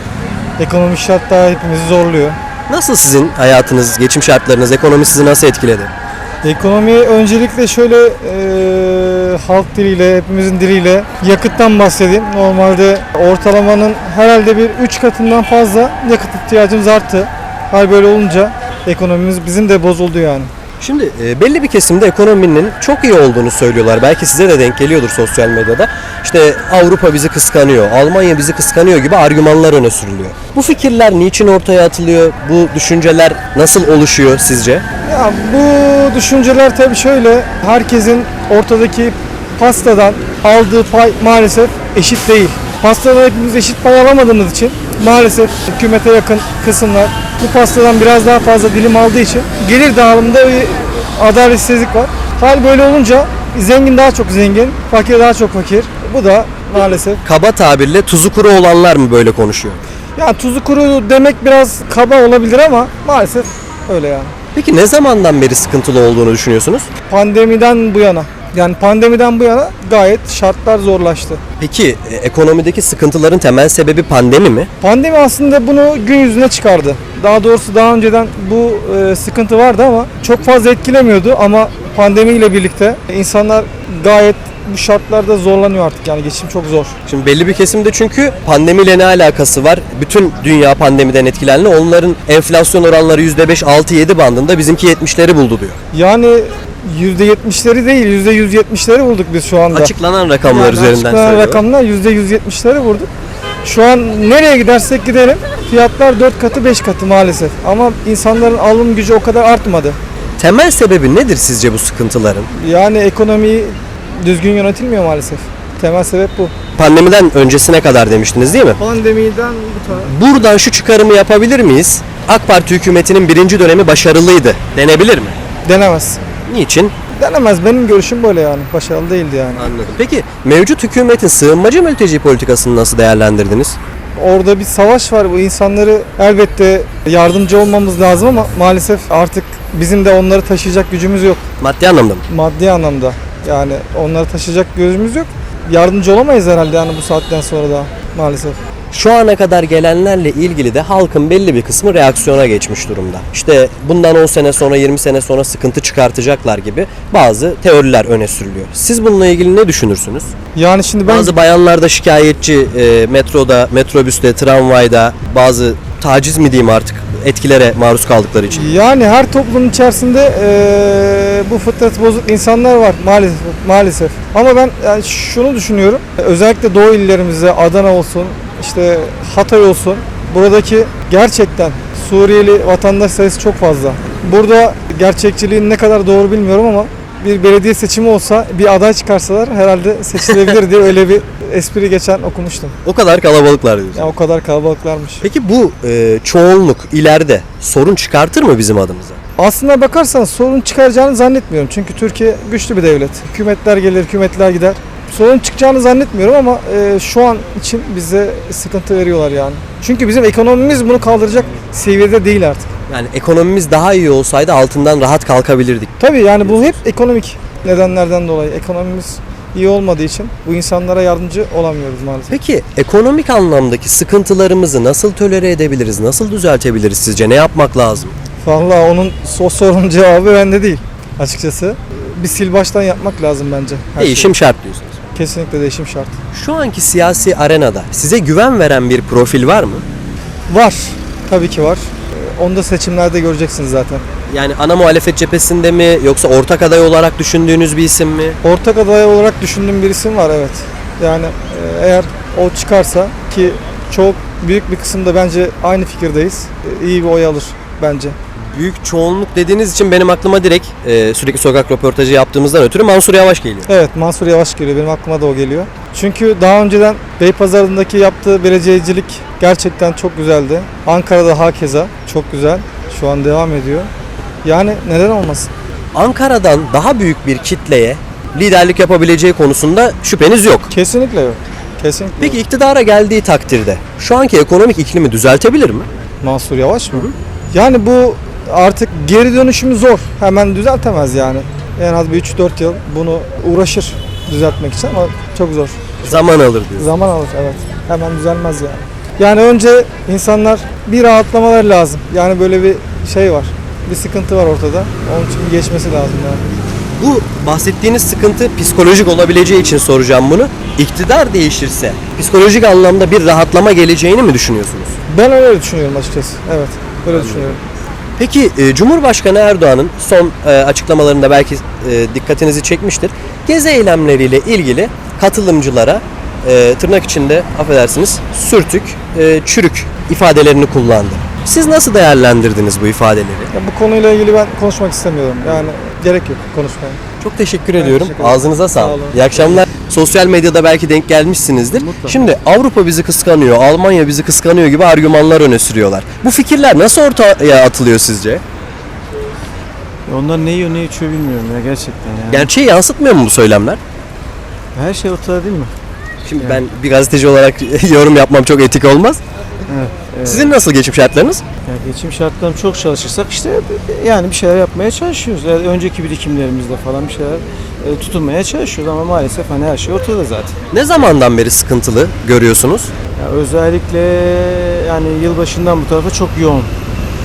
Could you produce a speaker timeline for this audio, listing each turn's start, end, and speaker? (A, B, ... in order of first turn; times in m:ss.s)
0:00.6-0:02.4 A
0:02.7-0:05.9 B
0:06.4-0:20.5 A
0:20.8-0:34.8 B
0:35.0-0:57.2 A
0:57.2-0:59.8 B
1:00.2-1:04.3 A
1:04.5-1:06.9 B
1:07.1-1:11.4 A
1:11.6-1:14.7 B
1:14.8-1:26.9 A
1:27.1-1:35.8 B
1:35.9-1:39.9 A
1:39.7-1:41.6 B
1:40.4-1:43.1 A
1:43.6-1:50.0 A
1:50.4-1:52.5 B
1:52.5-1:56.5 A
1:56.8-1:58.8 B
1:58.8-2:00.1 A
1:59.9-2:05.4 B
2:05.6-2:06.2 A
2:06.4-2:06.9 B
2:07.2-2:09.7 A
2:09.5-2:13.8 B
2:14.2-2:21.4 A
2:21.6-2:22.2 B
2:22.3-2:28.6 A
2:28.9-2:40.3 B
2:40.6-2:41.3 A
2:41.1-2:48.7 B
2:48.5-3:12.8 A
3:10.2-3:10.6 B
3:12.8-3:14.1 B
3:13.9-3:15.2 A
3:15.2-3:19.2 B
3:19.4-3:32.7 A
3:32.9-3:35.9 B
3:36.0-3:42.4 A
3:36.4-3:36.8 B
3:42.3-3:48.1 B
3:48.4-3:54.4 A
3:54.0-3:55.0 B
3:55.1-3:56.2 A
3:56.3-3:59.8 B
4:00.5-4:04.0 A
4:04.3-4:08.4 B
4:08.4-4:18.2 A
4:18.4-4:23.7 B
4:23.6-4:33.9 A
4:34.4-4:35.5 A
4:35.9-4:40.7 B
4:40.7-4:42.4 A
4:42.2-4:45.9 B
4:46.2-4:56.2 A
4:56.0-4:56.9 B
4:56.8-5:06.4 A
5:07.0-5:15.0 B
5:15.1-5:17.6 A
5:17.1-5:17.6 B
5:18.2-5:33.5 B
5:33.5-5:37.0 A
5:37.2-5:48.4 B
5:37.8-5:39.6 A
5:41.8-5:42.3 C
5:50.0-5:52.5 C
5:52.3-5:53.8 B
5:54.7-5:55.7 C
5:56.2-5:59.2 B
5:59.7-6:00.5 C
6:00.2-6:01.4 B
6:01.6-6:10.5 C
6:10.7-6:12.9 B
6:13.2-6:16.7 C